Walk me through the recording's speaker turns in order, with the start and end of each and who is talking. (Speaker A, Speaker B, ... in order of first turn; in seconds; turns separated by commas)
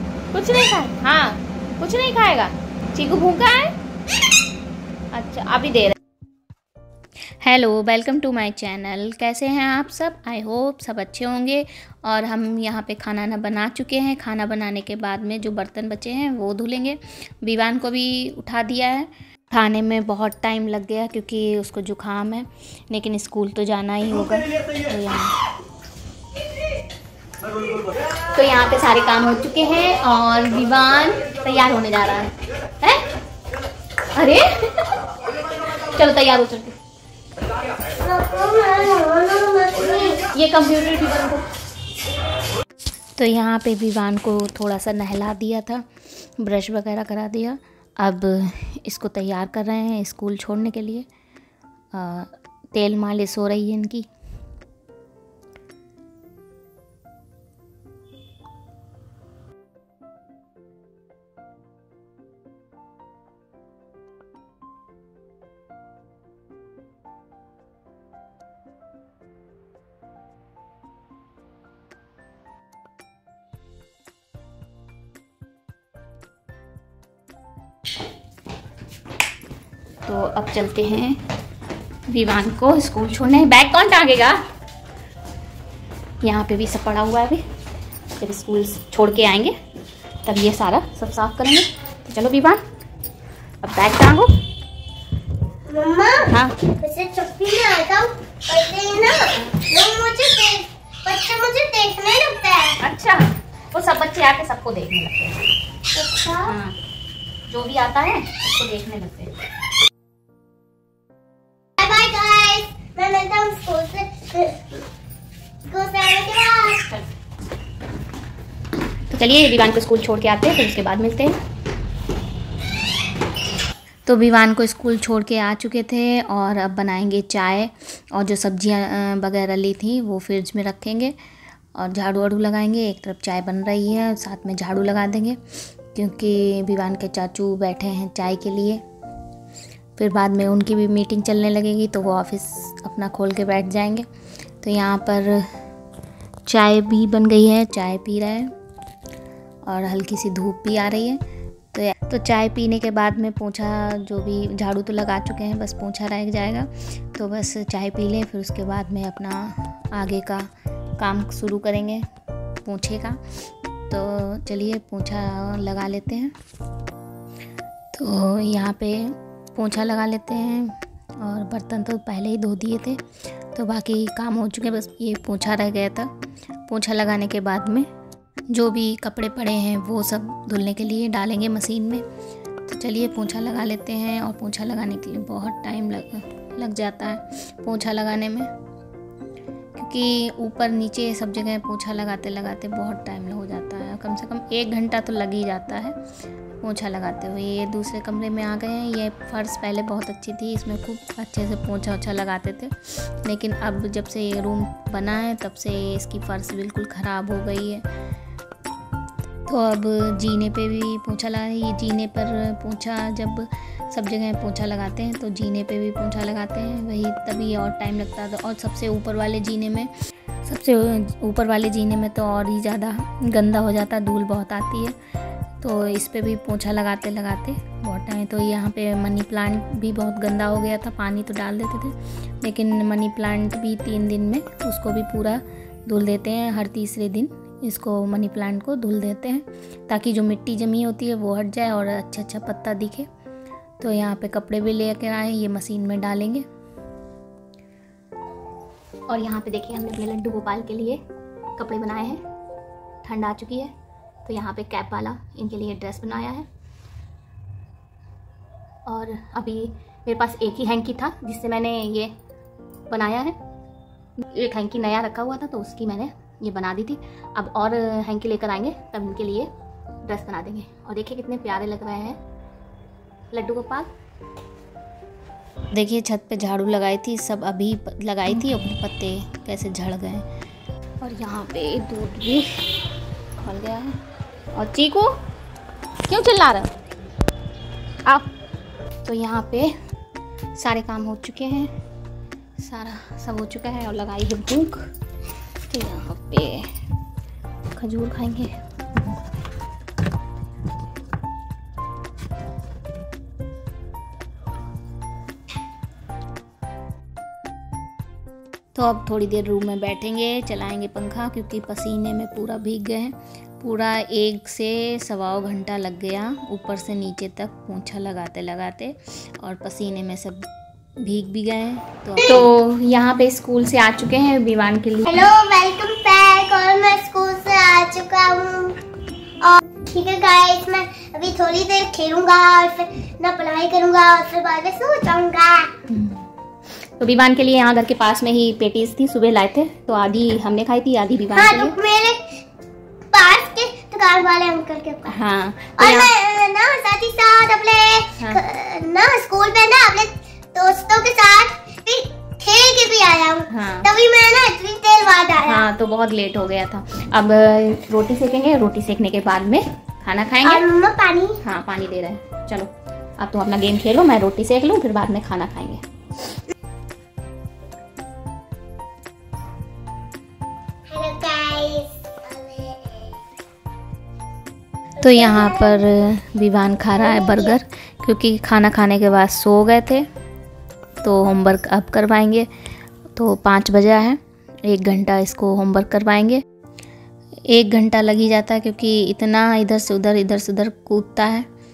Speaker A: 0.3-3.7, Speaker A: 5.1-6.0, Speaker A: 7.4-25.3, Speaker A: 28.3-33.0, Speaker A: 34.1-34.9, Speaker A: 35.9-36.7, Speaker B: 38.0-40.2, Speaker A: 40.1-41.4, Speaker A: 43.1-45.9, Speaker A: 46.4-51.0, Speaker A: 51.9-54.1, Speaker A: 80.0-81.2, Speaker A: 82.1-84.4, Speaker A: 86.2-87.4, Speaker A: 88.2-89.5, Speaker A: 90.2-92.6, Speaker A: 93.6-94.3, Speaker B: 95.7-102.8, Speaker A: 96.2-96.7, Speaker A: 102.8-105.4, Speaker B: 106.0-106.5, Speaker A: 106.4-106.7, Speaker A: 107.5-109.3, Speaker B: 111.8-114.8, Speaker B: 115.7-116.9, Speaker A: 119.1-121.3, Speaker A: 124.0-131.2, Speaker A: 131.7-138.8, Speaker A: 140.0-144.1, Speaker A: 144.6-145.5, Speaker A: 146.4-148.5, Speaker A: 149.6-162.1, Speaker A: 162.6-163.2, Speaker A: 163.9-166.3, Speaker A: 167.9-176.1, Speaker A: 176.7-177.9, Speaker A: 178.5-182.1, Speaker A: 182.7-188.5, Speaker A: 189.7-196.0, Speaker A: 196.6-207.8, Speaker A: 209.4-219.9, Speaker A: 220.4-224.9, Speaker A: 225.6-243.1, Speaker A: 243.8-246.4, Speaker A: 249.1-251.0, Speaker A: 251.6-252.2, Speaker A: 253.0-253.7, Speaker A: 254.2-256.5, Speaker A: 258.9-262.1, Speaker A: 262.9-263.4, Speaker A: 264.2-269.5, Speaker A: 270.1-272.2, Speaker A: 273.3-273.9, Speaker A: 275.7-280.2, Speaker A: 281.0-282.6, Speaker A: 283.4-283.9, Speaker A: 284.5-285.2, Speaker A: 286.1-286.7, Speaker A: 289.0-289.7, Speaker A: 290.5-291.7, Speaker A: 292.6-294.9, Speaker A: 295.7-296.7, Speaker A: 297.7-298.5, Speaker A: 308.7-320.5, Speaker A: 321.0-325.3, Speaker B: 325.1-328.8, Speaker B: 329.4-335.7, Speaker A: 335.9-336.2, Speaker A: 337.0-341.8, Speaker B: 341.3-342.4, Speaker B: 343.1-345.2, Speaker A: 345.1-346.1, Speaker B: 345.8-355.7, Speaker A: 353.5-353.9, Speaker A: 355.4-360.7, Speaker B: 360.4-361.4, Speaker A: 361.4-365.8, Speaker B: 370.9-372.9, Speaker A: 375.0-380.1, Speaker B: 375.0-375.8, Speaker B: 377.0-377.5, Speaker A: 381.0-382.5, Speaker A: 383.1-386.4, Speaker A: 387.5-391.5